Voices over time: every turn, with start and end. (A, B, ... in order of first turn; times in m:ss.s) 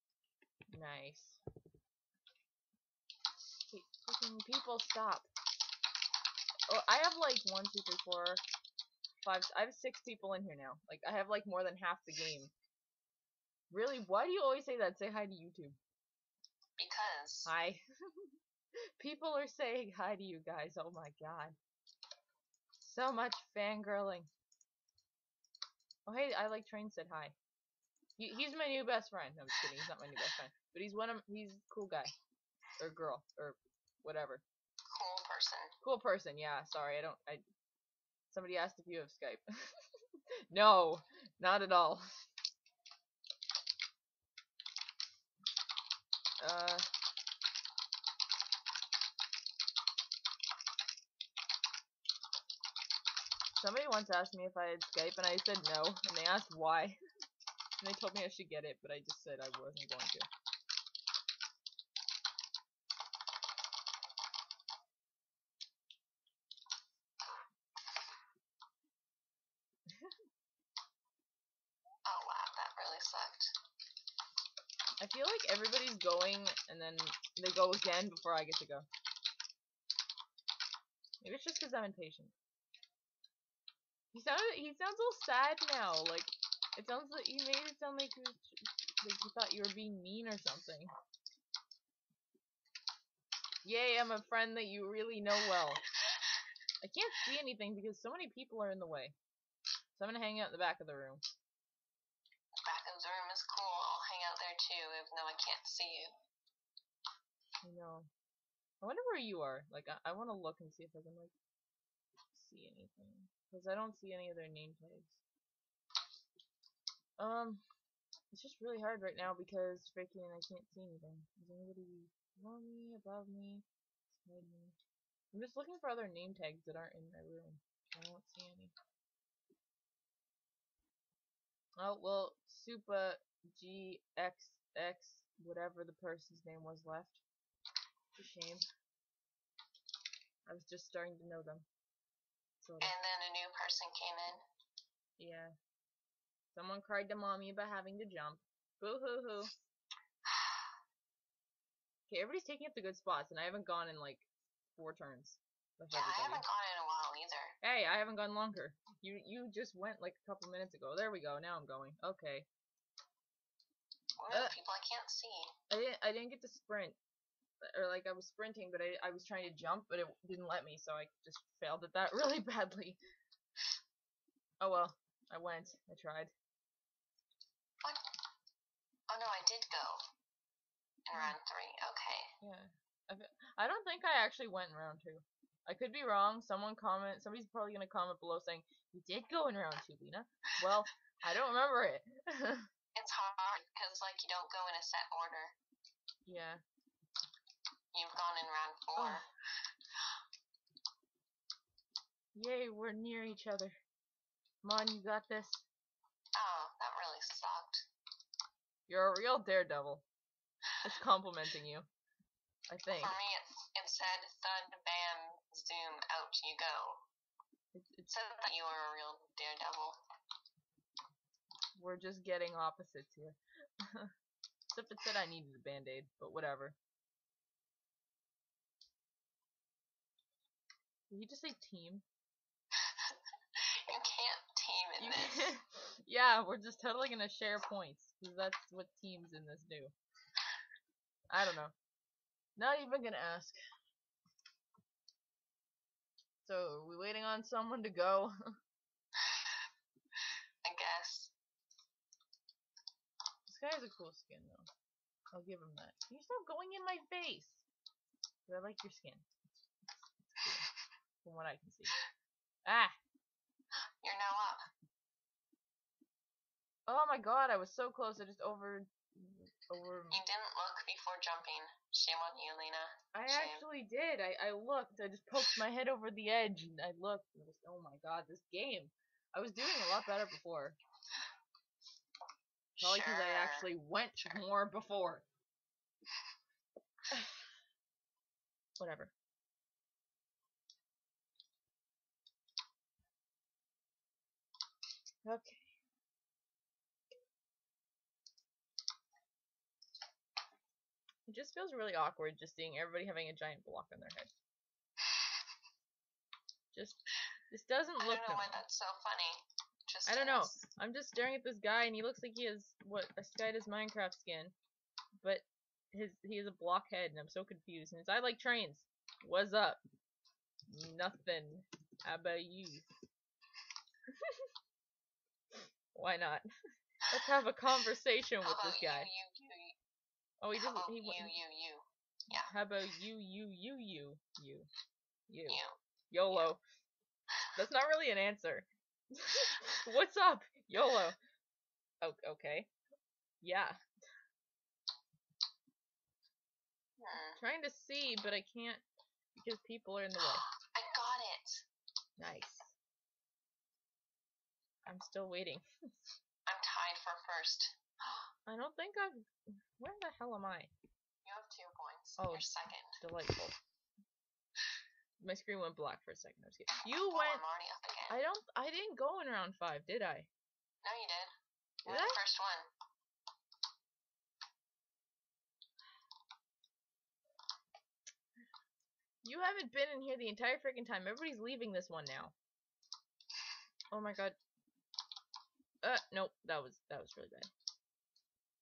0:00.7-0:01.4 A
0:03.7-0:05.3 A
0:06.7-0:08.4 A
0:09.2-0:12.5 A
0:13.7-0:15.8 A
0:16.8-0:17.5 B
0:17.5-0:18.3 A
0:19.0-0:21.6 A
0:22.8-0:24.3 A
0:26.1-0:27.4 A
0:28.2-0:32.1 A
0:32.8-0:34.4 A
0:34.9-0:35.7 B
0:35.8-0:37.4 A
0:38.3-0:39.8 A
0:40.5-0:42.1 A
0:46.4-0:46.9 A
0:53.6-0:57.0 A
0:57.8-1:00.3 A
1:12.1-1:13.5 B
1:15.0-1:18.9 A
1:21.2-1:22.3 A
1:24.1-1:30.9 A
1:33.6-1:35.8 A
1:36.8-1:39.2 A
1:40.0-1:41.2 A
1:42.6-1:46.1 B
1:47.6-1:48.1 A
1:48.8-1:51.3 A
1:52.3-1:55.2 A
1:57.2-1:57.6 A
1:58.3-2:03.6 A
2:04.2-2:04.8 A
2:05.3-2:08.7 A
2:11.8-2:17.2 A
2:18.2-2:18.7 A
2:20.5-2:21.7 A
2:22.6-2:22.9 A
2:22.8-2:24.4 B
2:25.2-2:25.5 A
2:26.5-2:29.5 A
2:32.1-2:36.4 A
2:35.9-2:37.6 B
2:37.6-2:42.5 A
2:44.2-2:45.5 B
2:45.7-2:47.0 A
2:47.6-2:53.0 A
2:54.6-2:56.3 A
2:59.1-3:00.0 B
3:01.1-3:02.3 B
3:02.4-3:12.7 A
3:13.0-3:15.6 B
3:16.2-3:16.6 A
3:17.9-3:19.3 B
3:19.0-3:19.2 A
3:22.4-3:23.8 A
3:24.6-3:25.6 A
3:26.4-3:27.8 B
3:28.9-3:30.0 A
3:30.8-3:31.9 A
3:32.7-3:33.2 A
3:33.0-3:37.0 B
3:37.7-3:38.1 A
3:38.1-3:40.0 B
3:41.8-3:44.1 A
3:44.7-3:46.8 A
3:51.1-3:52.0 A
3:53.9-3:55.5 B
3:55.0-3:59.9 A
4:01.3-4:01.7 A
4:02.6-4:03.6 A
4:06.4-4:08.3 A
4:10.6-4:11.3 B
4:13.5-4:14.7 A
4:15.3-4:17.6 A
4:18.5-4:19.3 A
4:20.3-4:20.7 A
4:21.2-4:21.9 A
4:22.6-4:23.0 A
4:24.0-4:24.6 B
4:26.9-4:30.2 A
4:30.1-4:33.6 B
4:33.1-4:40.8 A
4:42.8-4:43.7 B
4:42.8-4:45.2 A
4:48.8-4:49.1 A
4:55.2-4:55.8 A
5:01.3-5:04.3 A
5:06.7-5:07.0 A
5:07.5-5:08.5 A
5:08.0-5:10.6 B
5:10.1-5:14.5 A
5:15.2-5:19.8 A
5:20.7-5:22.9 A
5:25.9-5:26.4 A
5:27.1-5:29.1 A
5:28.4-5:29.8 B
5:30.4-5:31.3 A
5:30.5-5:32.5 B
5:32.5-5:34.7 A
5:35.3-5:36.6 A
5:35.5-5:35.8 B
5:37.6-5:41.2 A
5:42.0-5:42.7 A
5:43.4-5:43.8 A
5:47.0-5:47.4 B
5:47.4-5:48.8 A
5:49.4-5:50.4 A
5:50.7-5:51.6 B
5:52.2-5:52.7 A
5:54.9-5:55.6 A
5:56.5-5:57.7 B
5:58.5-5:59.3 A
5:59.8-6:00.7 A
6:01.2-6:03.0 B
6:02.2-6:03.6 A
6:05.2-6:07.4 A
6:06.9-6:08.2 B
6:08.1-6:10.3 A
6:10.8-6:11.3 B
6:11.8-6:12.7 B
6:11.9-6:12.2 A
6:19.2-6:22.3 A
6:23.9-6:24.4 A
6:25.8-6:27.5 A